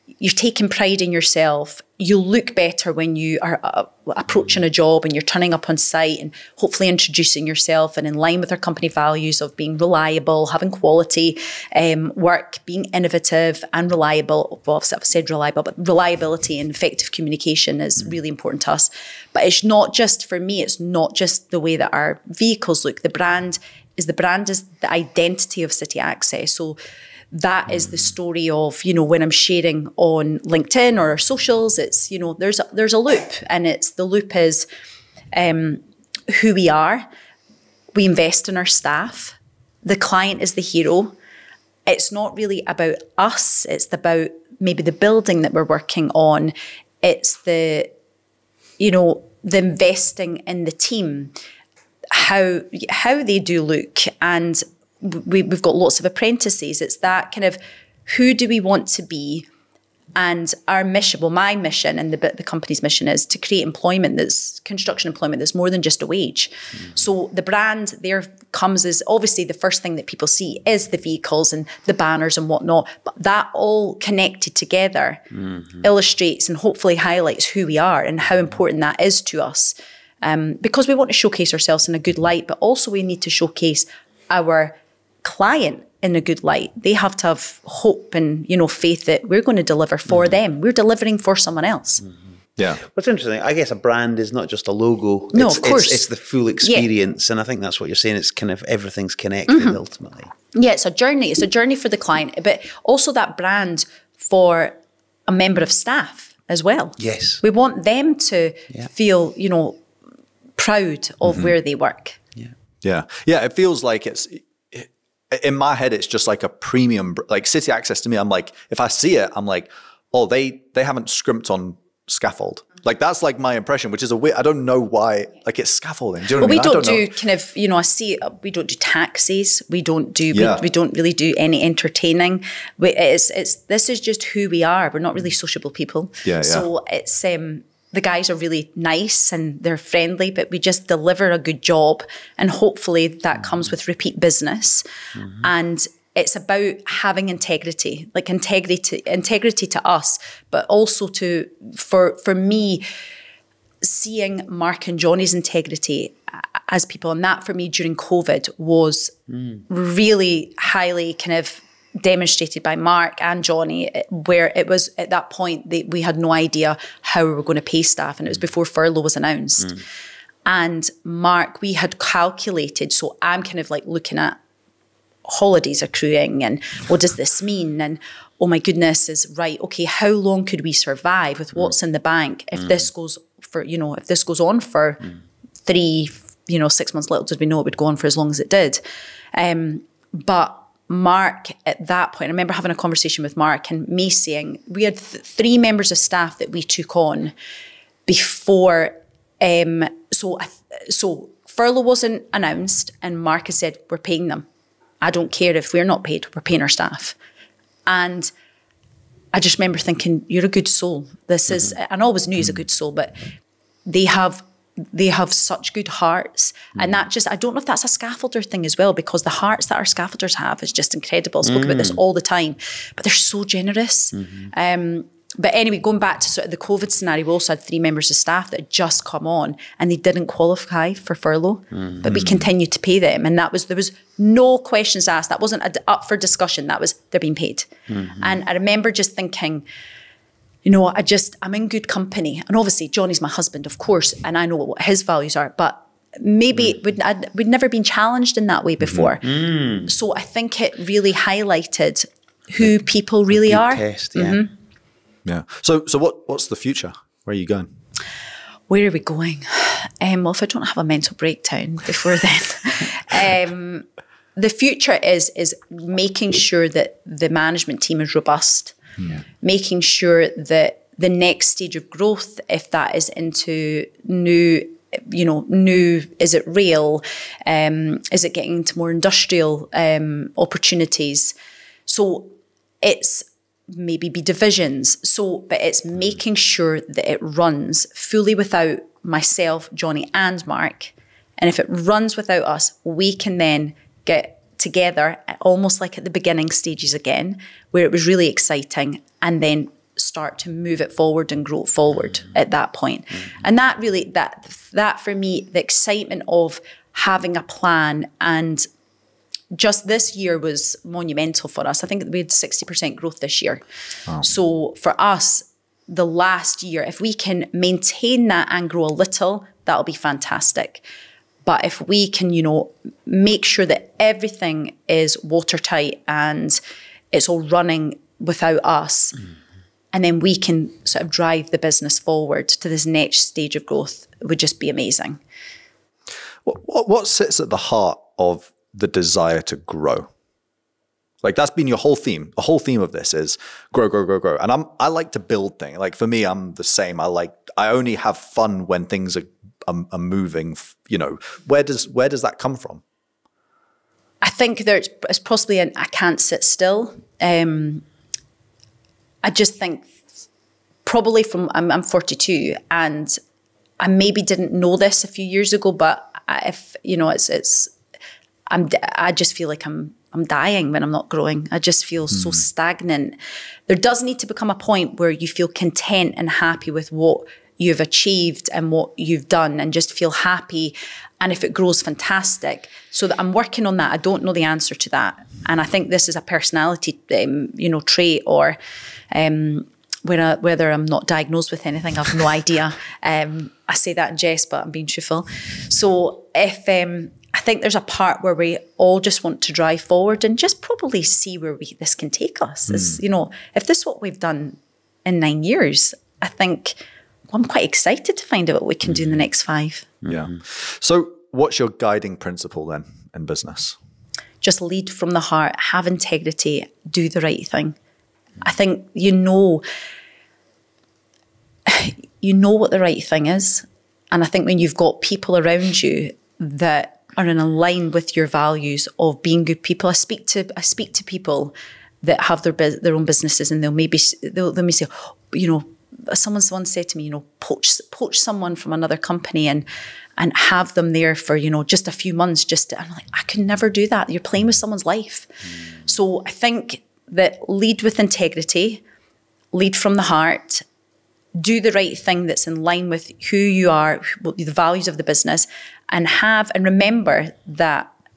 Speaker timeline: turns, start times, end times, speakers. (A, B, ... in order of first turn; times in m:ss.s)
0:00.2-0:26.8 A
0:27.3-0:34.6 A
0:35.3-0:37.1 A
0:38.0-0:41.1 A
0:41.9-0:47.9 A
0:48.8-0:51.4 A
0:52.1-0:59.5 A
1:00.2-1:32.0 A
1:32.8-1:40.3 B
1:35.3-1:36.1 A
1:36.6-1:36.9 A
1:39.5-1:39.8 A
1:40.5-1:49.8 A
1:47.0-1:47.4 B
1:50.6-1:52.2 A
1:52.8-2:07.1 C
2:06.4-2:32.8 A
2:10.3-2:10.6 C
2:16.2-2:16.7 C
2:33.8-2:39.2 A
2:39.7-2:49.8 A
2:50.5-2:54.4 A
2:55.2-3:05.1 A
3:05.6-3:08.8 A
3:09.3-3:17.3 A
3:18.1-3:24.5 A
3:25.0-3:27.2 A
3:27.9-3:28.3 A
3:29.3-3:33.2 A
3:33.8-3:59.6 A
3:41.5-3:42.0 B
3:51.8-3:52.0 B
3:52.1-3:52.4 C
4:00.6-4:14.5 A
4:09.2-4:09.9 B
4:13.3-4:14.4 B
4:15.2-4:17.7 C
4:18.7-4:28.8 A
4:29.4-4:41.3 A
4:41.9-5:08.7 A
5:09.5-5:13.6 A
5:14.2-5:20.8 A
5:21.4-5:26.6 A
5:27.1-5:29.2 A
5:29.9-5:35.2 A
5:36.4-5:40.1 C
5:41.2-5:52.8 C
5:54.2-5:57.8 A
5:59.2-6:00.1 A
6:00.8-6:03.2 A
6:03.8-6:07.7 A
6:08.5-6:13.1 A
6:13.7-6:28.6 A
6:29.1-6:46.8 A
6:47.3-6:49.9 A
6:50.1-6:53.8 C
6:54.4-6:57.8 A
6:58.4-6:59.6 A
7:01.7-7:19.6 A
7:20.2-7:25.3 A
7:25.8-7:28.8 A
7:29.5-7:30.6 A
7:31.4-7:37.9 A